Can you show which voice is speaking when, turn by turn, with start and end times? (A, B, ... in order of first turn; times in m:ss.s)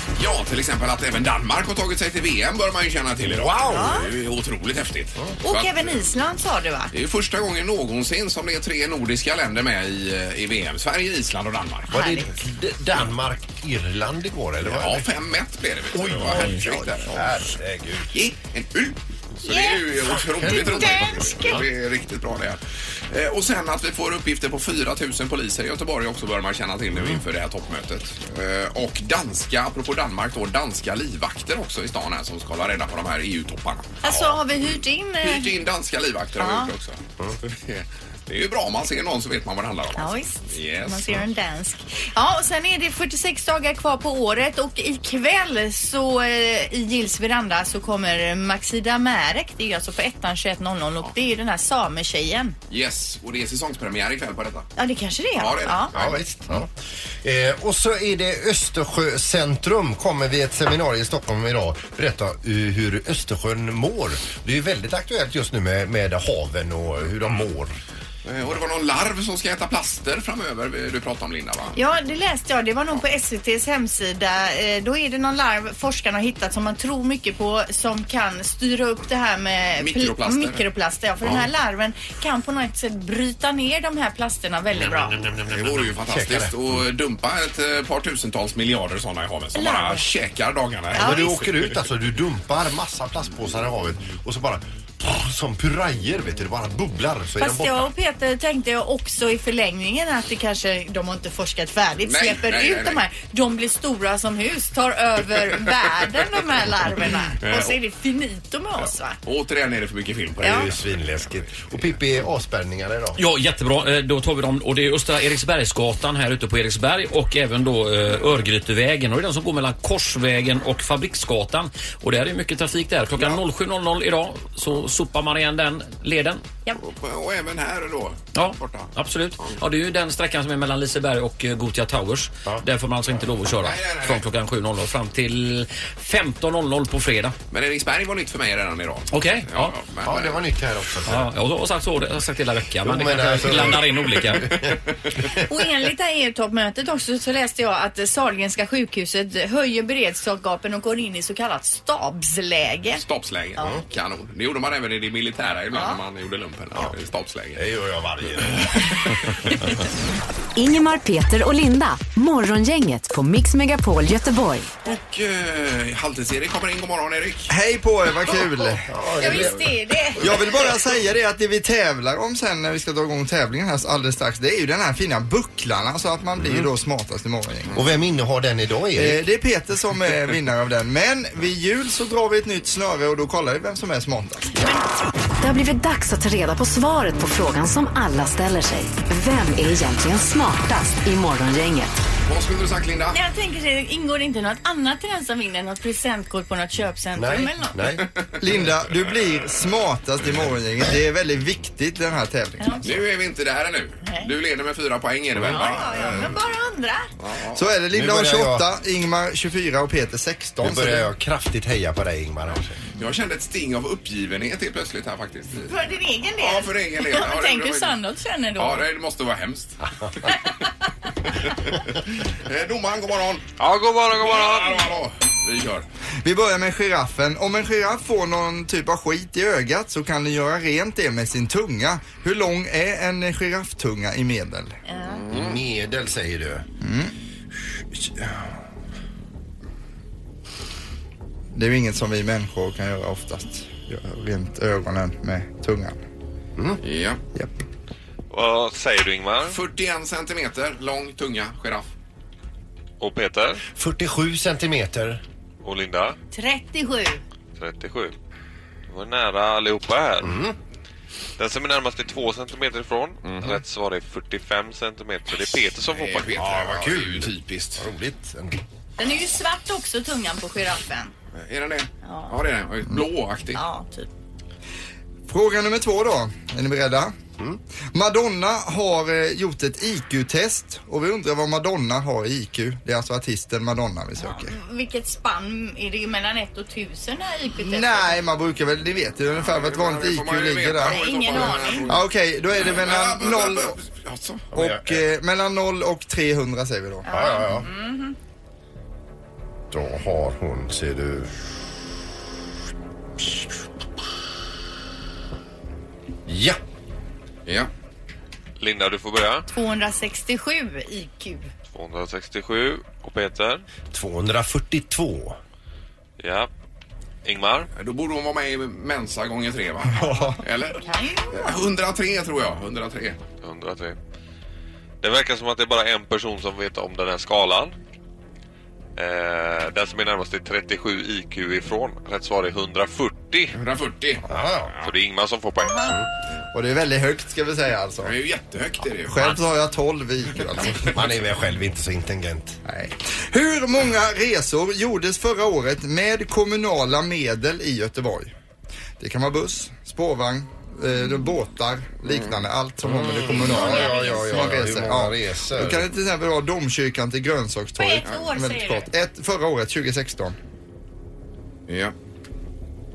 0:00.2-0:06.1 A
0:03.2-0:03.9 B
0:03.7-0:04.1 C
0:05.4-0:06.9 C
0:06.9-0:11.9 A
0:11.9-0:12.3 C
0:11.9-0:15.1 B
0:14.6-0:17.4 A
0:15.9-0:18.1 B
0:18.1-0:34.6 A
0:19.4-0:21.6 C
0:20.4-0:21.2 B
0:34.0-0:35.5 C
0:35.2-0:41.2 A
0:36.4-0:36.7 C
0:40.0-0:52.6 C
0:52.7-0:54.7 A
0:54.8-0:55.9 C
0:55.4-0:56.2 A
0:55.9-0:56.7 B
0:57.2-1:07.8 B
1:08.2-1:11.8 A
1:11.8-1:25.2 C
1:19.8-1:20.6 A
1:24.8-1:26.8 B
1:25.5-1:31.8 A
1:29.6-1:30.0 C
1:30.9-1:37.9 B
1:31.0-1:31.3 C
1:37.4-1:49.2 C
1:42.0-1:43.0 A
1:47.4-1:47.8 A
1:48.8-1:52.0 A
1:50.4-1:53.2 B
1:50.4-1:50.7 C
1:53.2-2:06.4 D
2:06.8-2:08.9 A
2:08.3-2:17.4 D
2:13.6-2:14.3 A
2:17.5-2:20.4 A
2:19.1-2:19.7 D
2:20.0-2:21.3 B
2:21.1-2:24.5 D
2:22.8-2:24.8 B
2:24.6-2:24.9 A
2:25.5-2:33.0 C
2:32.9-2:37.6 A
2:35.7-2:36.0 C
2:37.6-2:39.1 B
2:38.4-2:39.5 A
2:40.6-2:44.7 E
2:44.8-2:47.5 A
2:47.5-2:48.9 F
2:48.9-2:49.7 B
2:49.2-2:50.7 C
2:50.2-2:57.8 F
2:56.4-2:56.7 B
2:57.7-2:59.2 B
2:59.0-3:04.5 F
3:05.4-3:11.9 E
3:12.3-3:13.2 A
3:13.1-3:17.8 C
3:17.2-3:18.1 B
3:18.4-3:22.8 F
3:22.6-3:22.9 C
3:22.8-3:26.3 A
3:24.0-3:24.3 C
3:25.5-3:27.1 C
3:27.2-3:27.7 A
3:27.6-3:31.1 F
3:27.9-3:28.7 B
3:30.6-3:32.8 B
3:33.0-3:35.7 A
3:35.7-3:38.9 C
3:36.4-3:38.0 A
3:38.6-3:40.3 A
3:41.5-3:43.6 A
3:43.6-3:44.8 G
3:44.1-3:45.9 A
3:46.2-3:54.8 F
3:54.9-3:55.2 C
3:55.2-3:55.6 A
3:55.3-3:56.6 B
3:56.8-3:57.1 F
4:01.5-4:06.0 F
4:06.8-4:07.2 A
4:07.4-4:07.6 F
4:08.3-4:09.6 G
4:09.5-4:11.9 A
4:13.0-4:13.6 G
4:13.7-4:15.2 B
4:15.6-4:16.2 G
4:16.3-4:17.2 C
4:17.6-4:18.1 G
4:18.9-4:20.4 G
4:20.2-4:20.6 B
4:21.4-4:26.4 G
4:23.2-4:23.6 A
4:25.9-4:27.8 A
4:26.4-4:28.6 B
4:29.0-4:31.1 C
4:31.4-4:33.6 A
4:32.0-4:32.3 C
4:33.5-4:34.1 C
4:35.3-4:37.2 F
4:37.9-4:44.6 F
4:44.2-4:48.2 C
4:47.6-4:53.8 F
4:49.3-4:54.5 A
4:50.9-4:52.0 C
4:54.5-4:55.0 B
4:54.5-4:57.1 F
4:57.0-4:58.2 C
4:57.1-4:57.7 B
4:59.7-5:01.5 B
5:06.3-5:06.6 B
5:08.6-5:09.5 G
5:09.5-5:11.5 C
5:11.7-5:13.6 G
5:13.9-5:15.4 B
5:16.2-5:16.5 G
5:17.2-5:17.7 G
5:17.8-5:23.2 A
5:19.9-5:20.4 F
5:20.7-5:21.6 C
5:23.4-5:24.0 G
5:25.0-5:27.7 G
5:29.0-5:33.6 G
5:33.6-5:34.3 A
5:34.3-5:34.7 B
5:34.8-5:36.0 G
5:35.6-5:35.9 C
5:36.5-5:38.1 F
5:38.0-5:39.4 A
5:39.0-5:41.0 F
5:40.9-5:42.6 B
5:42.6-5:48.3 F
5:49.0-6:00.4 F
5:52.1-5:52.4 A
5:53.0-5:55.9 B
5:53.5-5:54.2 C
5:57.8-5:58.9 C
6:01.7-6:01.9 A